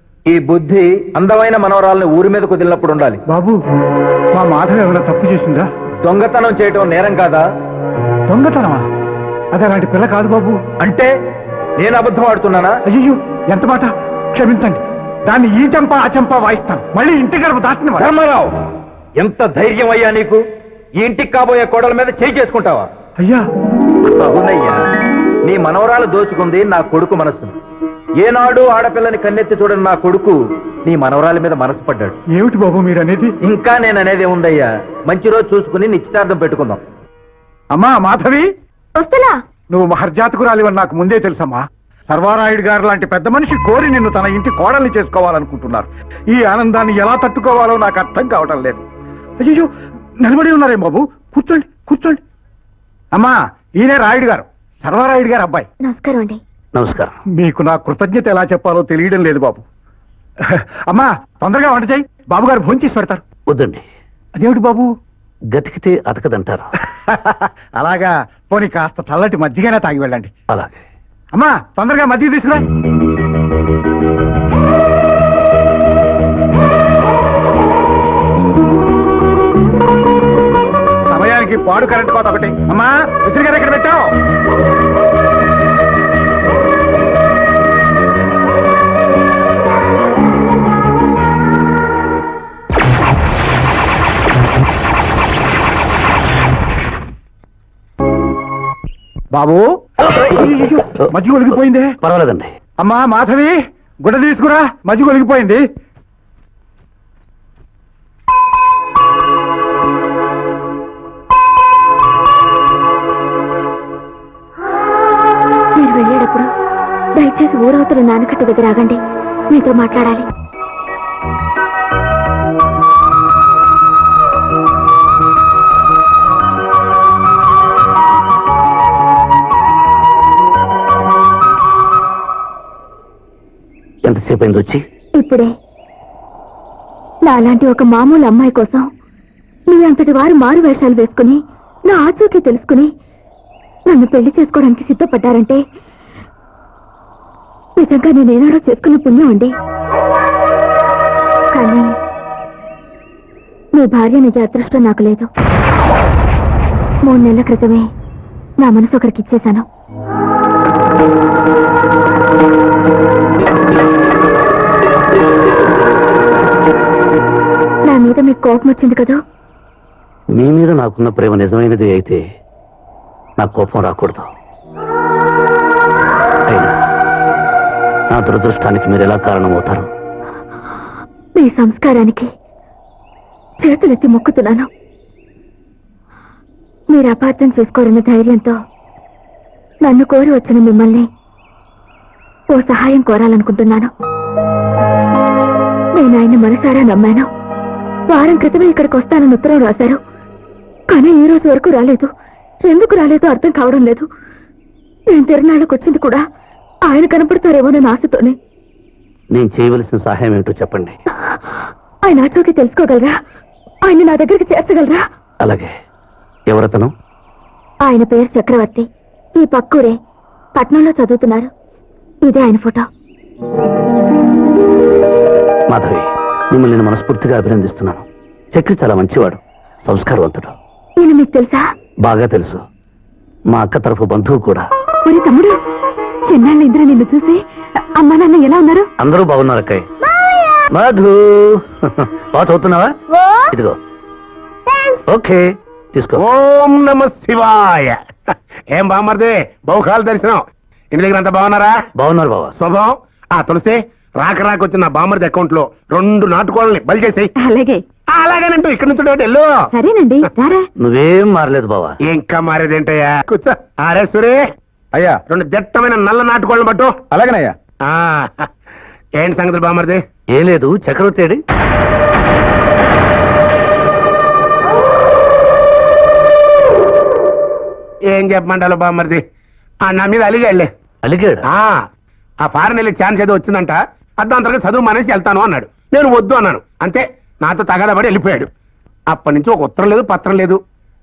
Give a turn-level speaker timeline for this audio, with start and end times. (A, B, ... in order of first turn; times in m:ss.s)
0:00.3-0:03.2 A
0:03.3-0:03.6 B
0:04.3-0:05.7 B
0:06.0-0:07.4 A
0:08.3-0:08.8 B
0:09.5-0:10.6 B
0:10.8-0:11.1 A
0:11.8-0:12.7 A
0:12.8-0:18.1 B
0:18.0-0:18.5 A
0:19.2-0:20.4 A
0:21.0-0:22.9 A
0:24.1-0:24.8 A
0:25.4-0:27.5 A
0:28.2-0:32.2 A
0:32.3-0:33.3 B
0:33.4-0:36.8 A
0:37.7-0:38.4 B
0:39.0-0:39.4 C
0:39.7-0:48.8 B
0:49.4-0:49.7 B
0:50.2-0:52.2 B
0:53.1-0:55.6 B
0:55.8-0:56.4 C
0:56.7-0:57.2 D
0:57.3-0:59.6 B
1:00.4-1:03.2 B
1:03.5-1:03.8 D
1:04.4-1:04.9 B
1:05.5-1:06.7 D
1:07.1-1:10.3 B
1:10.5-1:10.8 D
1:11.3-1:12.6 B
1:21.1-1:24.0 B
1:39.3-1:41.9 B
1:42.0-1:42.5 D
1:42.8-1:45.6 B
1:55.8-1:56.5 C
1:57.2-1:59.0 C
1:59.5-2:00.3 C
2:14.0-2:14.8 D
2:15.2-2:15.5 C
2:17.2-2:18.9 C
2:19.7-2:22.9 C
2:23.9-2:25.6 C
2:27.8-2:29.5 C
2:31.5-2:31.9 C
2:33.7-2:35.3 C
2:37.0-2:37.9 C
2:38.6-2:39.6 C
2:47.9-2:49.2 C
2:50.3-2:52.2 D
2:53.4-2:54.3 D
2:56.5-2:56.7 D
2:58.1-2:59.9 D
3:01.4-3:02.3 C
3:03.6-3:04.7 C
3:06.9-3:08.6 C
3:09.8-3:11.1 C
3:12.5-3:13.9 C
3:15.9-3:17.3 C
3:18.1-3:20.0 C
3:20.9-3:22.1 C
3:22.6-3:24.1 C
3:25.1-3:26.2 C
3:26.8-3:28.4 C
3:29.3-3:31.0 D
3:32.0-3:33.1 C
3:33.8-3:35.0 C
3:35.4-3:35.7 D
3:36.5-3:36.9 D
3:37.8-3:40.0 C
3:40.5-3:41.5 C
3:42.2-3:42.8 C
3:45.7-3:50.5 D
3:51.0-3:51.6 C
3:52.0-3:52.6 D
3:53.5-3:54.6 D
3:55.0-3:55.6 C
3:56.3-3:57.4 C
3:58.0-3:58.9 C
3:59.0-3:59.8 D
4:00.2-4:00.6 C
4:00.7-4:02.9 D
4:03.5-4:03.8 D
4:04.7-4:05.0 C
4:05.1-4:06.2 D
4:06.2-4:10.4 E
4:10.9-4:11.7 E
4:12.0-4:12.5 D
4:12.6-4:17.3 E
4:17.4-4:17.8 C
4:18.1-4:19.5 E
4:19.7-4:20.7 C
4:20.8-4:22.0 D
4:22.1-4:24.4 E
4:25.3-4:27.0 E
4:27.1-4:27.5 A
4:27.8-4:28.5 E
4:29.2-4:30.0 E
4:30.3-4:31.4 D
4:38.1-4:39.2 E
4:39.8-4:40.7 E
4:41.0-4:41.4 D
4:41.4-4:41.8 E
4:42.4-4:48.5 E
4:49.1-4:50.6 E